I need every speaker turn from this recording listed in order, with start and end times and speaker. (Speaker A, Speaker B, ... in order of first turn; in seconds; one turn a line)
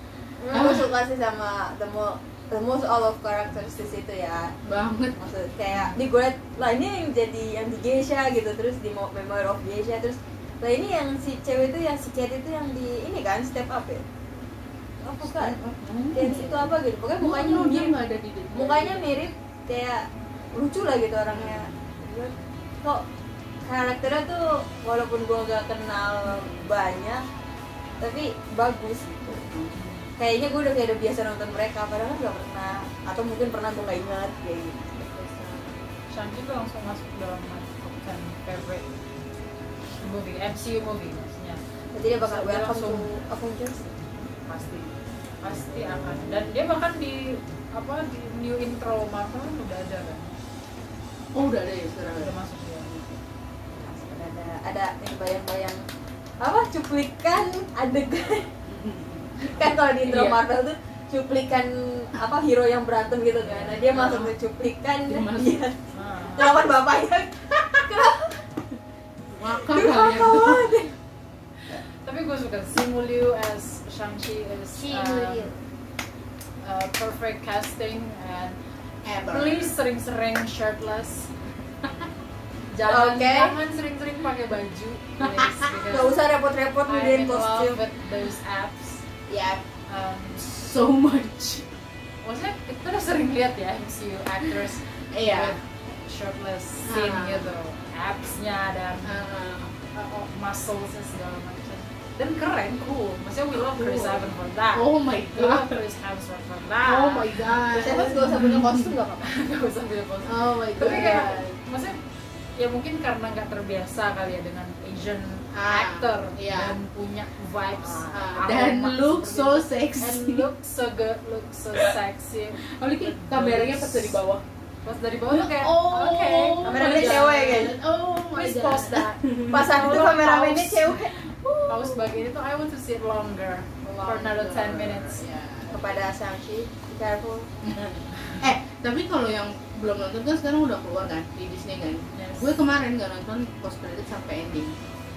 Speaker A: 0.4-4.5
Speaker B: 0.5-0.9
Speaker B: 4.6-5.2
Speaker A: 5.2-14.0
Speaker A: 15.0-15.6
Speaker B: 15.2-19.1
Speaker A: 16.1-17.9
Speaker A: 18.5-23.0
Speaker B: 21.3-21.7
Speaker A: 23.6-27.2
Speaker B: 26.3-26.7
Speaker A: 28.0-29.5
Speaker B: 29.4-29.8
Speaker C: 29.8-30.0
Speaker A: 30.2-35.7
Speaker B: 35.2-35.5
Speaker C: 36.1-38.9
Speaker C: 40.0-41.6
Speaker A: 41.9-43.9
Speaker C: 42.1-43.1
Speaker C: 44.5-50.3
Speaker B: 51.3-53.2
Speaker C: 52.2-52.9
Speaker A: 53.7-55.8
Speaker A: 56.4-58.5
Speaker B: 58.6-60.4
Speaker A: 59.4-68.4
Speaker C: 63.5-64.1
Speaker B: 63.9-64.3
Speaker B: 65.1-65.6
Speaker C: 65.9-66.6
Speaker B: 69.3-70.8
Speaker A: 69.4-70.9
Speaker C: 71.7-75.5
Speaker A: 74.8-75.5
Speaker C: 76.6-78.6
Speaker B: 79.0-79.7
Speaker C: 79.3-81.3
Speaker C: 82.7-86.2
Speaker A: 82.9-83.6
Speaker B: 85.2-85.9
Speaker A: 85.9-87.8
Speaker C: 86.9-89.0
Speaker B: 89.3-89.6
Speaker C: 89.9-90.5
Speaker B: 90.4-91.7
Speaker C: 92.2-99.2
Speaker B: 95.1-95.5
Speaker B: 96.8-97.6
Speaker B: 99.0-99.7
Speaker C: 99.9-107.3
Speaker B: 103.6-105.8
Speaker B: 106.8-108.9
Speaker A: 107.6-109.4
Speaker C: 109.2-112.0
Speaker B: 110.2-111.5
Speaker C: 112.6-124.2
Speaker B: 115.5-116.8
Speaker B: 118.0-120.5
Speaker B: 122.6-124.4
Speaker C: 124.8-127.7
Speaker B: 125.3-132.2
Speaker A: 126.6-127.7
Speaker C: 128.3-130.8
Speaker A: 129.5-131.1
Speaker C: 131.7-135.2
Speaker B: 134.0-136.0
Speaker A: 135.7-137.5
Speaker B: 137.6-144.7
Speaker C: 142.1-142.5